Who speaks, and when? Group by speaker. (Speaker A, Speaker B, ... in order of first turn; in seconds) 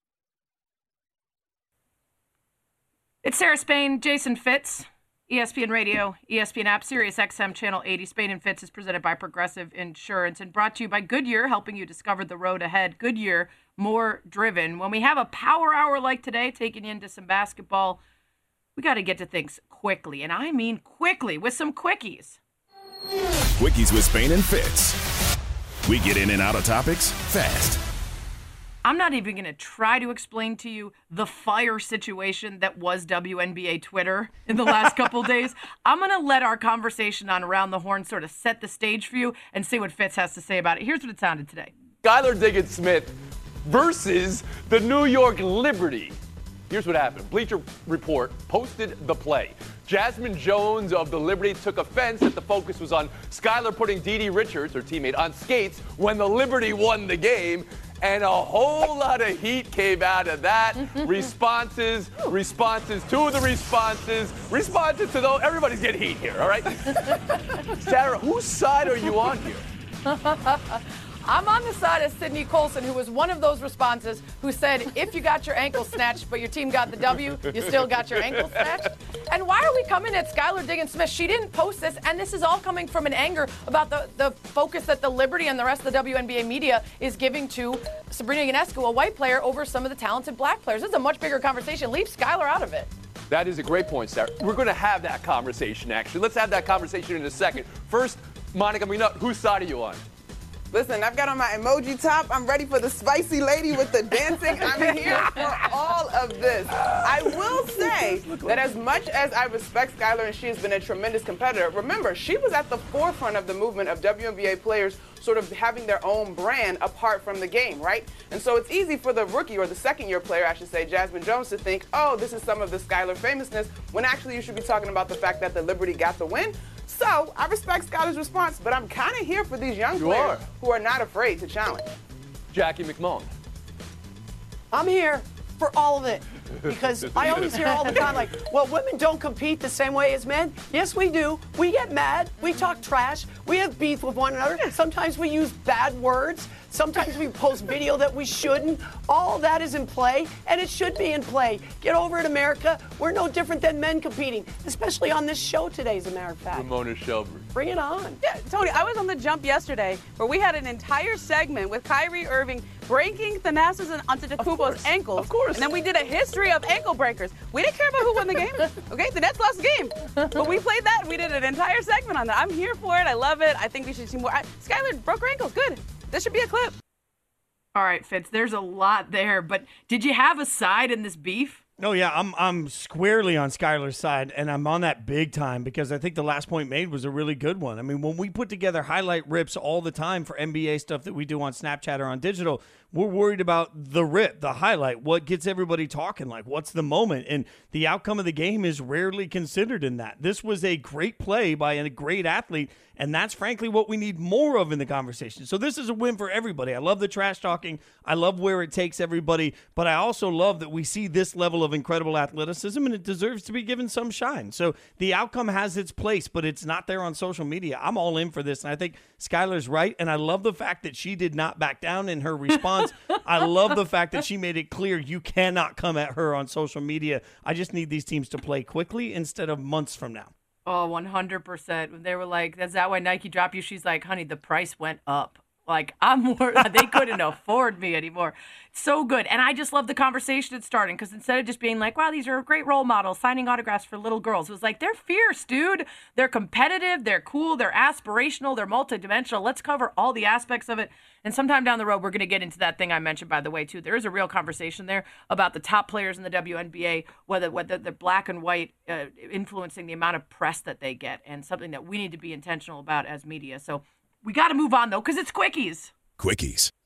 Speaker A: 3.2-18.0, 18.8-22.4, 28.8-41.7, 70.0-92.9, 177.8-181.6, 230.7-265.9
Speaker B: 23.6-25.0, 25.9-27.8, 266.2-266.7
Speaker C: 42.0-46.2, 46.7-69.7, 78.2-78.7, 93.3-100.0, 106.9-107.1, 130.0-130.5, 132.5-133.3, 136.7-138.2, 156.5-157.5, 164.4-165.7
Speaker D: 100.7-131.9
Speaker E: 134.7-156.7, 157.5-158.2
Speaker F: 158.2-176.7
Speaker G: 181.8-230.3